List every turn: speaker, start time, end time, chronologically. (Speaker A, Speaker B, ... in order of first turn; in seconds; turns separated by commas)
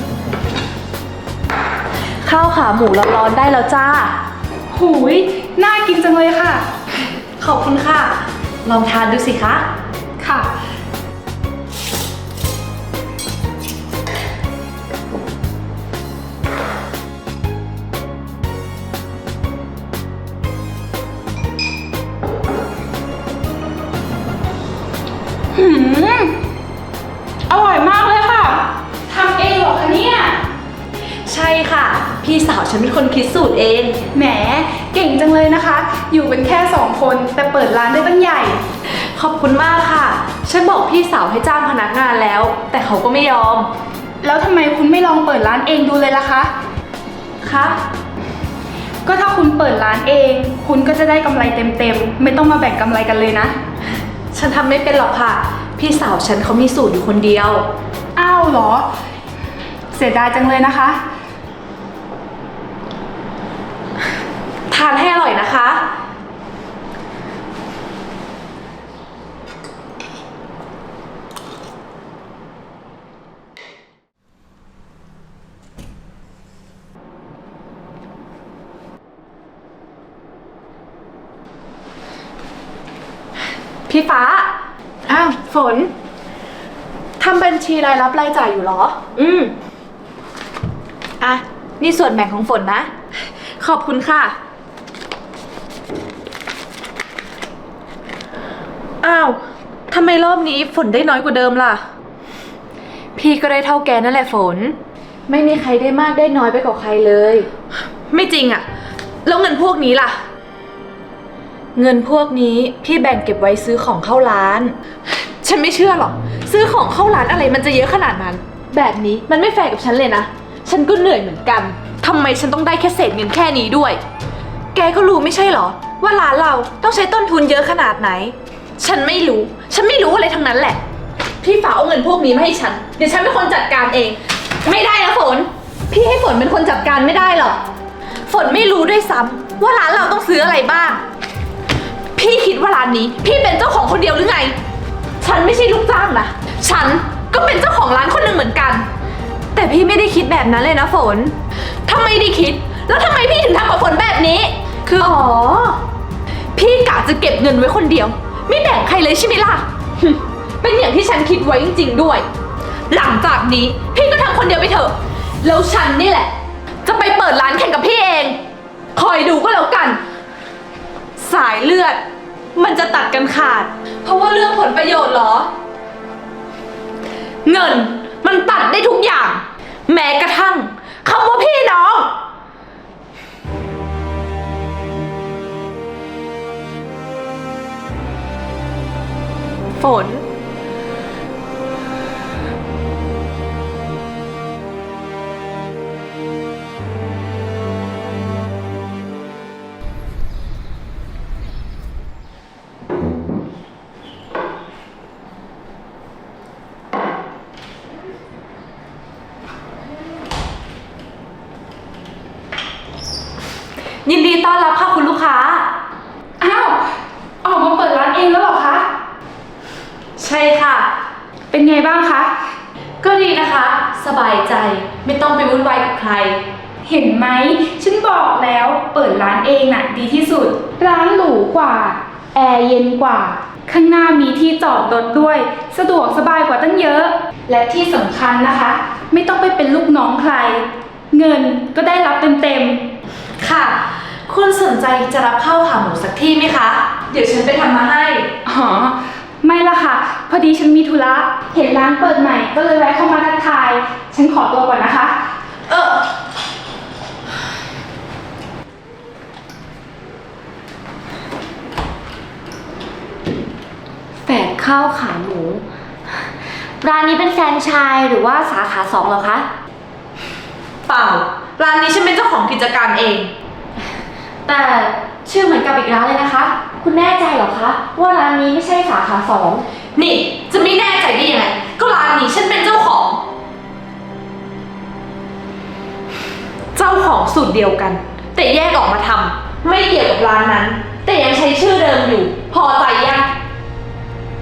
Speaker A: 2.2-4.2, Speaker B: 4.7-6.7, Speaker A: 7.4-9.7, Speaker B: 25.5-26.4, Speaker B: 27.5-30.4, Speaker A: 31.1-34.0, Speaker B: 34.1-38.6, Speaker A: 38.9-43.7, Speaker B: 44.2-46.5, Speaker A: 47.4-47.8, Speaker B: 49.0-53.5, Speaker A: 54.3-57.7, Speaker B: 58.2-58.9, Speaker B: 59.9-61.0, Speaker A: 64.7-65.8, Speaker A: 83.9-84.5, Speaker A: 85.1-85.9, Speaker A: 87.2-89.5, Speaker A: 91.2-92.9, Speaker A: 93.6-94.4, Speaker A: 99.0-101.8, Speaker A: 103.2-104.8, Speaker A: 105.3-107.5, Speaker A: 108.1-108.7, Speaker A: 109.2-110.2, Speaker A: 111.8-124.0, Speaker A: 124.7-130.8, Speaker A: 131.4-137.6, Speaker A: 138.3-141.0, Speaker A: 142.2-144.6, Speaker A: 145.2-148.9, Speaker A: 149.5-155.8, Speaker A: 156.6-162.3, Speaker A: 162.9-166.3, Speaker A: 166.8-168.4, Speaker A: 168.9-170.0, Speaker A: 171.2-172.0, Speaker A: 172.6-175.5, Speaker A: 177.4-182.1, Speaker A: 189.7-190.3, Speaker A: 214.1-215.7, Speaker B: 216.4-216.9, Speaker B: 217.4-218.9, Speaker A: 220.2-220.9, Speaker B: 221.5-222.3, Speaker A: 223.0-226.4, Speaker B: 226.8-242.8, Speaker A: 243.4-248.3, Speaker B: 248.4-255.2, Speaker A: 255.7-256.1, Speaker C: 264.2-265.6, Speaker C: 266.8-269.5, Speaker A: 270.9-273.3, Speaker C: 274.4-279.6, Speaker A: 280.0-283.2, Speaker A: 286.8-293.3